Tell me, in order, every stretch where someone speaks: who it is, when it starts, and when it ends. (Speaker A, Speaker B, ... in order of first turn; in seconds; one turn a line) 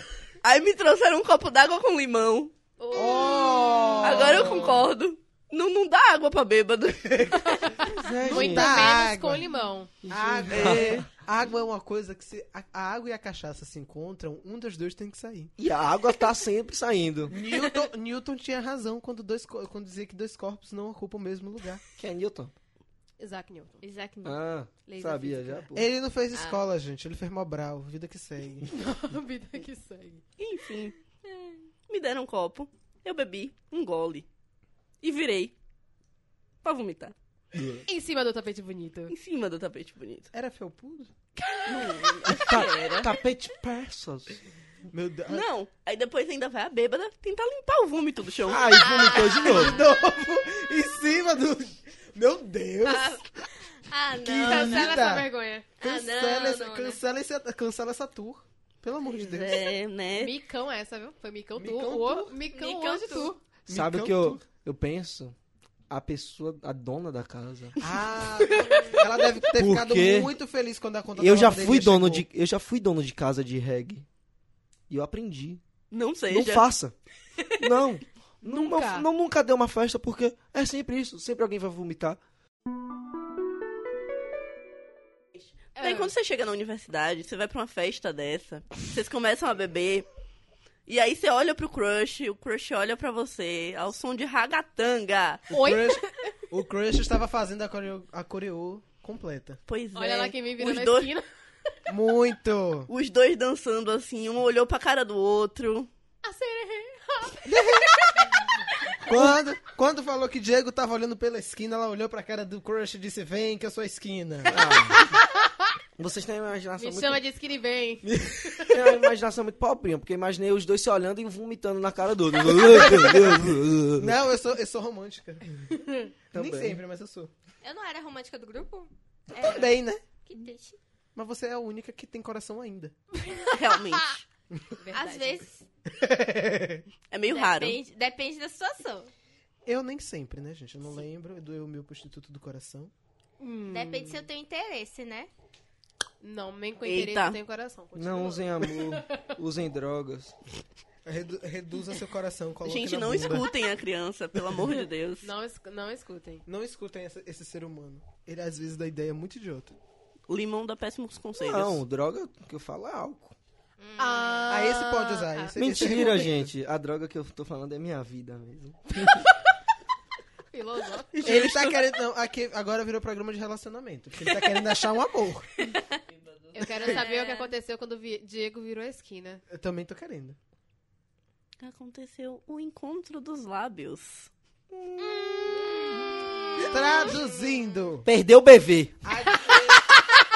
Speaker A: 0.4-2.5
Speaker B: 2.8-4.3
Speaker C: 2.9-4.9
Speaker A: 4.0-7.7
Speaker C: 7.0-9.5
Speaker D: 7.4-9.9
Speaker E: 7.9-9.0
Speaker E: 10.0-11.1
Speaker C: 10.0-15.5
Speaker A: 10.5-11.1
Speaker E: 15.6-17.4
Speaker C: 17.3-21.8
Speaker E: 22.0-22.5
Speaker D: 23.2-23.8
Speaker B: 23.8-24.4
Speaker E: 24.2-25.9
Speaker D: 24.9-25.7
Speaker C: 25.7-28.7
Speaker B: 26.3-26.6
Speaker D: 28.6-30.2
Speaker A: 30.4-31.0
Speaker A: 31.9-34.3
Speaker A: 35.0-35.5
Speaker A: 36.6-37.1
Speaker E: 37.5-37.9
Speaker D: 37.9-39.1
Speaker A: 39.1-40.3
Speaker C: 40.3-41.3
Speaker D: 41.5-42.0
Speaker A: 41.7-43.1
Speaker E: 42.2-44.4
Speaker C: 44.9-45.5
Speaker A: 45.3-48.7
Speaker E: 48.5-49.8
Speaker B: 48.7-49.7
Speaker C: 49.4-53.3
Speaker B: 52.9-55.1
Speaker C: 54.2-59.6
Speaker D: 54.4-55.8
Speaker B: 55.8-57.0
Speaker A: 59.2-60.4
Speaker D: 60.1-63.4
Speaker C: 61.6-62.3
Speaker B: 62.5-63.3
Speaker C: 63.7-64.4
Speaker E: 63.7-65.3
Speaker E: 65.9-67.8
Speaker C: 67.8-72.3
Speaker E: 69.5-70.3
Speaker E: 71.2-74.1
Speaker E: 74.9-75.6
Speaker A: 75.9-76.7
Speaker E: 76.3-77.0
Speaker E: 77.5-82.2
Speaker D: 78.4-79.1
Speaker A: 85.4-90.1
Speaker D: 85.8-86.1
Speaker A: 90.9-95.5
Speaker D: 95.5-96.4
Speaker C: 95.5-99.6
Speaker A: 99.7-101.2
Speaker D: 99.9-101.7
Speaker C: 101.9-102.9
Speaker A: 102.9-105.9
Speaker D: 106.2-108.4
Speaker C: 109.1-114.6
Speaker E: 109.1-109.4
Speaker E: 114.5-115.1
Speaker D: 115.0-115.2
Speaker E: 116.0-117.2
Speaker D: 116.8-118.2
Speaker C: 118.0-119.0
Speaker E: 118.7-124.1
Speaker C: 122.5-125.7
Speaker D: 125.8-126.1
Speaker C: 126.3-127.3
Speaker E: 126.3-126.8
Speaker B: 127.6-130.8
Speaker C: 129.4-130.0
Speaker C: 131.2-133.0
Speaker A: 133.5-134.2
Speaker D: 134.8-135.4
Speaker B: 134.9-135.7
Speaker C: 135.9-136.8
Speaker A: 137.1-137.8
Speaker B: 137.3-139.1
Speaker C: 139.7-142.9
Speaker D: 143.4-144.2
Speaker B: 143.7-145.3
Speaker D: 146.2-149.3
Speaker A: 146.8-147.4
Speaker E: 147.9-150.3
Speaker C: 151.1-153.5
Speaker A: 152.7-155.3
Speaker D: 155.2-156.4
Speaker C: 156.5-159.8
Speaker A: 160.3-161.8
Speaker E: 161.4-163.3
Speaker B: 163.8-164.5
Speaker D: 164.0-165.6
Speaker C: 164.5-166.5
Speaker E: 165.6-169.2
Speaker D: 170.5-171.5
Speaker A: 171.2-171.8
Speaker C: 171.2-175.6
Speaker A: 176.1-176.6
Speaker D: 176.5-179.4
Speaker B: 176.7-177.5
Speaker C: 179.5-180.4
Speaker A: 181.6-184.3
Speaker E: 184.7-185.6
Speaker B: 185.5-186.0
Speaker C: 186.7-188.1
Speaker E: 188.1-189.0
Speaker C: 189.1-189.9